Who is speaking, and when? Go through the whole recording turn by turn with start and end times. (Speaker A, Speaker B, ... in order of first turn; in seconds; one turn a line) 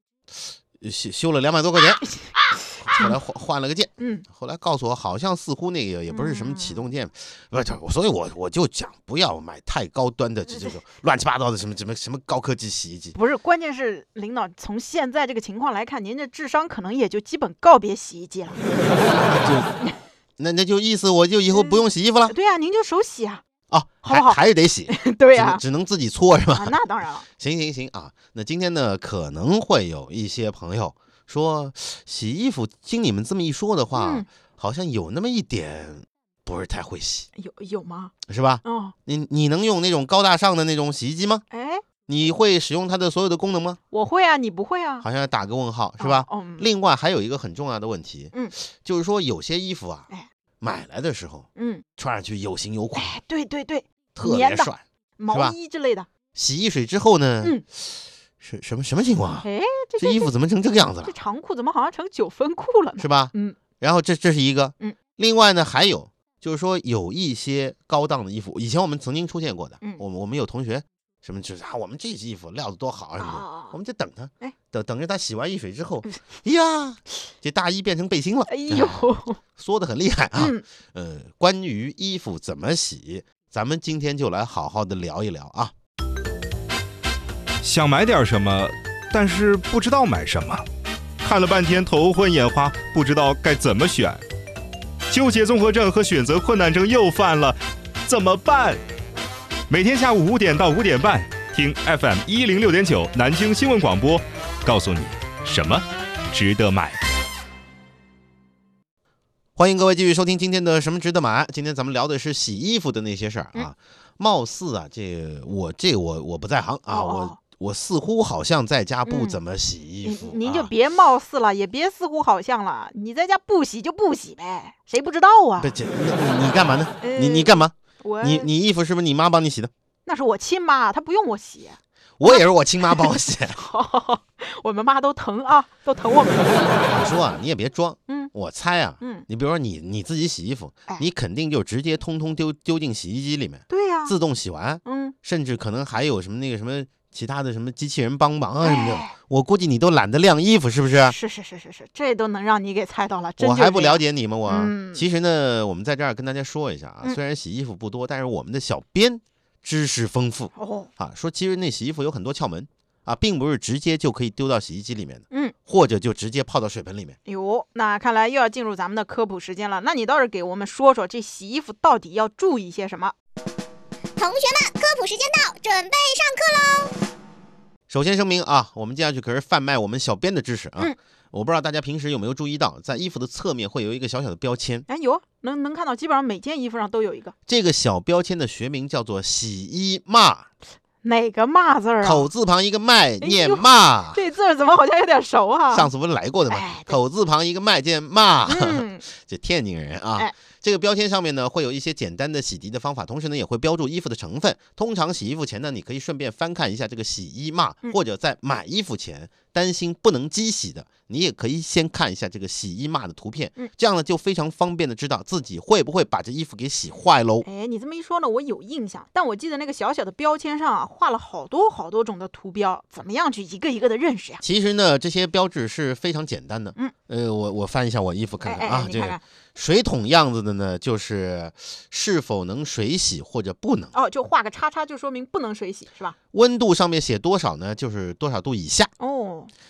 Speaker A: 0.3-2.1
Speaker B: 2.0-3.1
Speaker A: 2.8-13.2
Speaker B: 4.0-4.2
Speaker B: 6.1-6.9
Speaker B: 13.2-18.6
Speaker A: 19.0-19.8
Speaker A: 20.4-22.3
Speaker B: 21.5-23.4
Speaker A: 23.7-26.8
Speaker B: 24.0-24.4
Speaker B: 24.9-25.6
Speaker B: 26.5-27.3
Speaker A: 27.4-37.3
Speaker B: 33.9-34.3
Speaker B: 37.4-38.9
Speaker A: 38.3-41.4
Speaker B: 41.5-41.8
Speaker A: 42.1-43.8
Speaker B: 43.9-45.1
Speaker A: 45.0-50.1
Speaker B: 46.0-46.7
Speaker A: 50.6-53.1
Speaker B: 51.6-51.8
Speaker B: 53.0-56.1
Speaker A: 54.1-55.5
Speaker A: 56.3-59.5
Speaker B: 59.4-60.3
Speaker A: 60.0-61.1
Speaker B: 61.0-63.6
Speaker A: 63.0-79.0
Speaker B: 73.2-73.8
Speaker B: 78.5-79.4
Speaker A: 79.6-85.7
Speaker B: 80.4-80.6
Speaker C: 87.6-90.7
Speaker C: 91.2-94.2
Speaker C: 95.1-98.8
Speaker C: 99.7-107.0
Speaker A: 109.6-120.7
Speaker B: 116.9-117.4
Speaker B: 119.1-119.4
Speaker B: 120.0-125.8
Speaker A: 125.6-129.7
Speaker B: 127.0-128.5
Speaker B: 130.1-136.9
Speaker A: 132.2-133.6
Speaker A: 136.9-151.2
Speaker B: 139.0-139.3
Speaker B: 143.7-144.1
Speaker B: 144.8-145.2
Speaker B: 148.6-149.1
Speaker B: 151.0-155.1
Speaker A: 153.4-167.2
Speaker B: 160.6-160.9
Speaker B: 167.3-173.2
Speaker D: 174.2-176.9
Speaker A: 177.9-184.9
Speaker B: 184.9-187.3
Speaker A: 187.5-190.5
Speaker B: 191.0-192.3
Speaker A: 192.0-194.2
Speaker B: 193.2-195.9
Speaker A: 195.7-217.5
Speaker B: 196.5-197.0
Speaker B: 198.5-199.1
Speaker B: 217.4-224.4
Speaker A: 224.4-233.9
Speaker B: 228.4-229.2
Speaker B: 233.9-236.2
Speaker A: 236.3-238.9
Speaker B: 239.0-239.5